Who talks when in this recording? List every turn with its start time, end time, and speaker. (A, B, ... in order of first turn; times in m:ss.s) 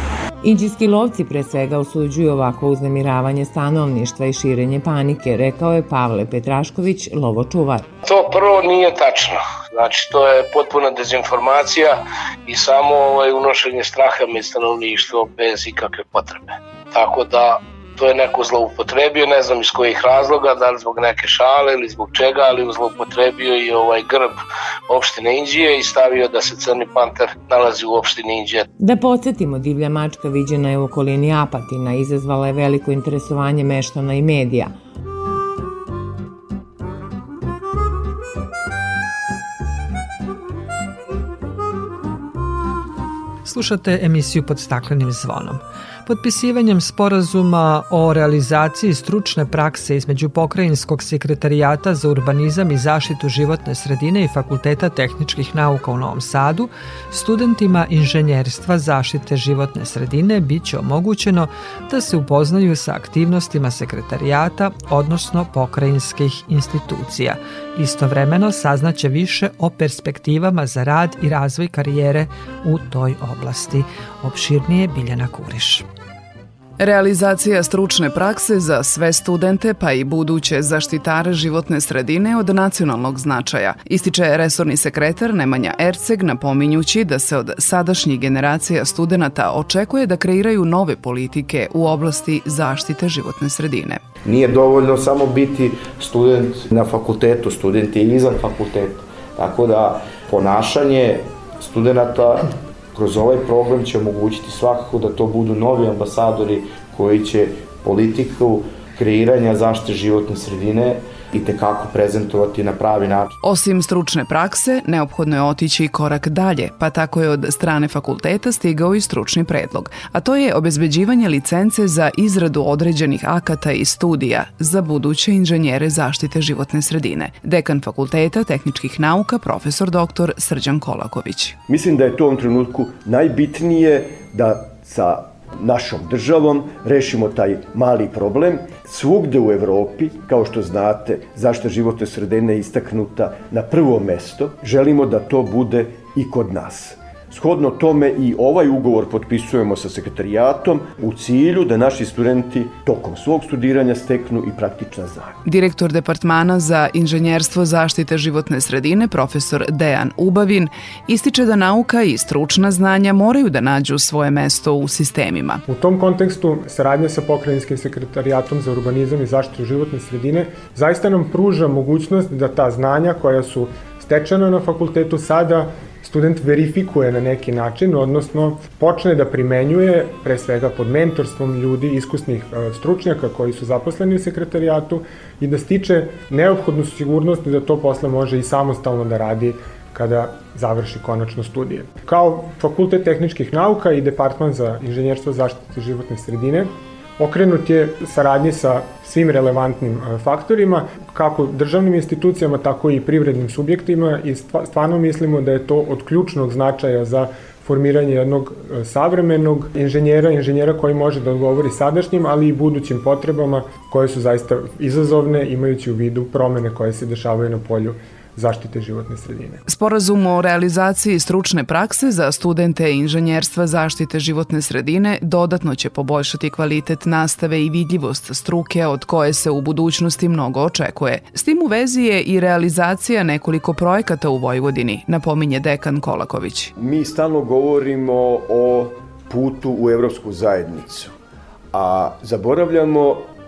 0:00.4-0:07.9 A
0:08.0-0:28.7 B
0:28.8-0:34.7 A
0:43.4-1:15.8 C
1:16.8-1:34.0 D
1:34.2-1:53.3 E
1:53.4-2:11.6 D
2:11.7-2:35.4 F
2:35.4-2:45.6 D
2:45.7-3:39.6 G
3:39.7-3:56.7 D
3:56.8-4:01.1 F
4:01.7-4:03.2 F